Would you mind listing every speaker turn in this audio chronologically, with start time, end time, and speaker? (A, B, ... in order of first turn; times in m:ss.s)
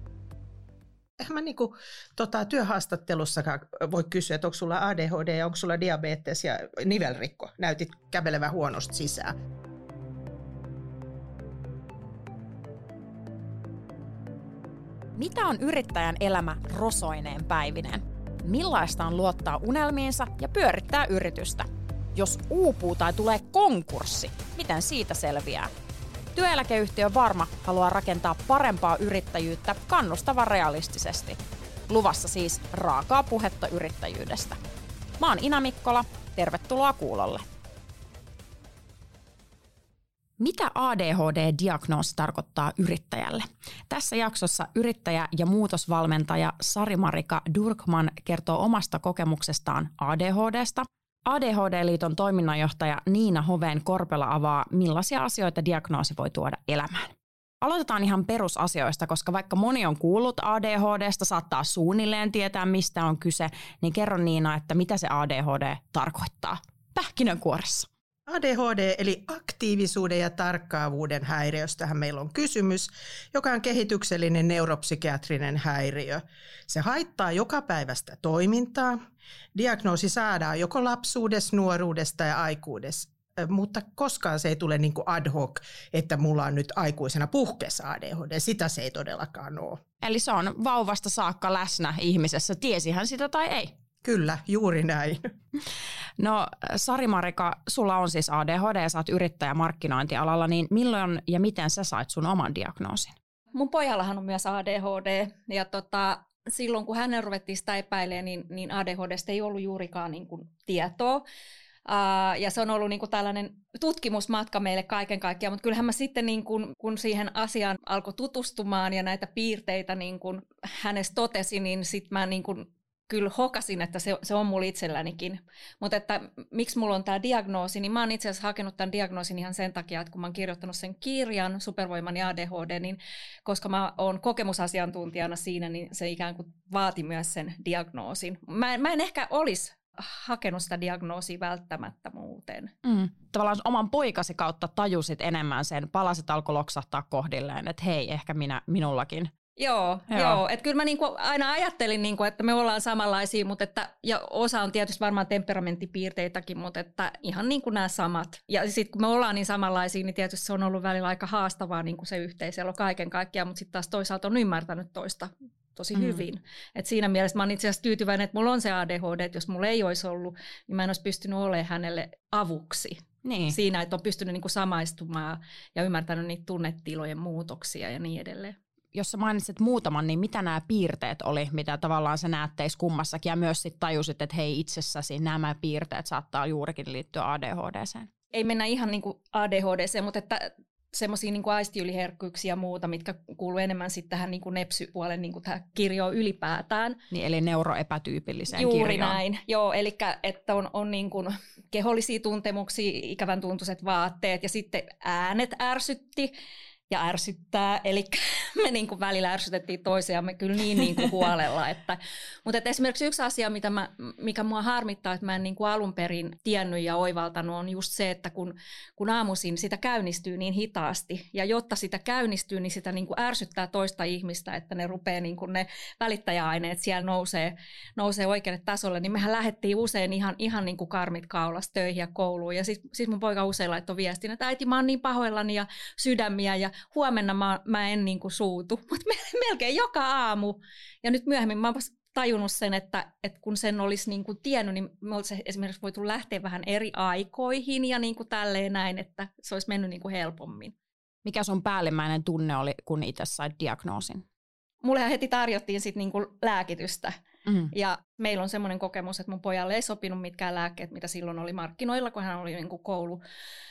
0:01.2-0:09.3 A
0:15.2-0:25.7 B
0:26.3-0:34.6 B
0:35.2-0:37.4 B
0:40.4-1:07.9 B
1:08.3-1:19.0 A
1:19.5-1:29.8 A
1:30.0-1:33.7 B
1:34.0-1:35.3 A
1:36.2-1:43.1 B
1:43.5-1:51.2 C
1:51.8-2:22.7 C
2:22.8-2:29.3 B
2:29.6-2:58.6 C
2:30.1-2:30.4 B
2:45.9-2:46.2 B
2:53.2-2:53.6 B
2:58.9-3:08.1 B
3:08.3-3:17.0 C
3:17.1-3:19.2 B
3:18.5-3:26.3 C
3:26.9-4:10.7 C
4:11.2-4:14.2 B
4:14.8-4:17.1 C
4:17.7-4:23.2 C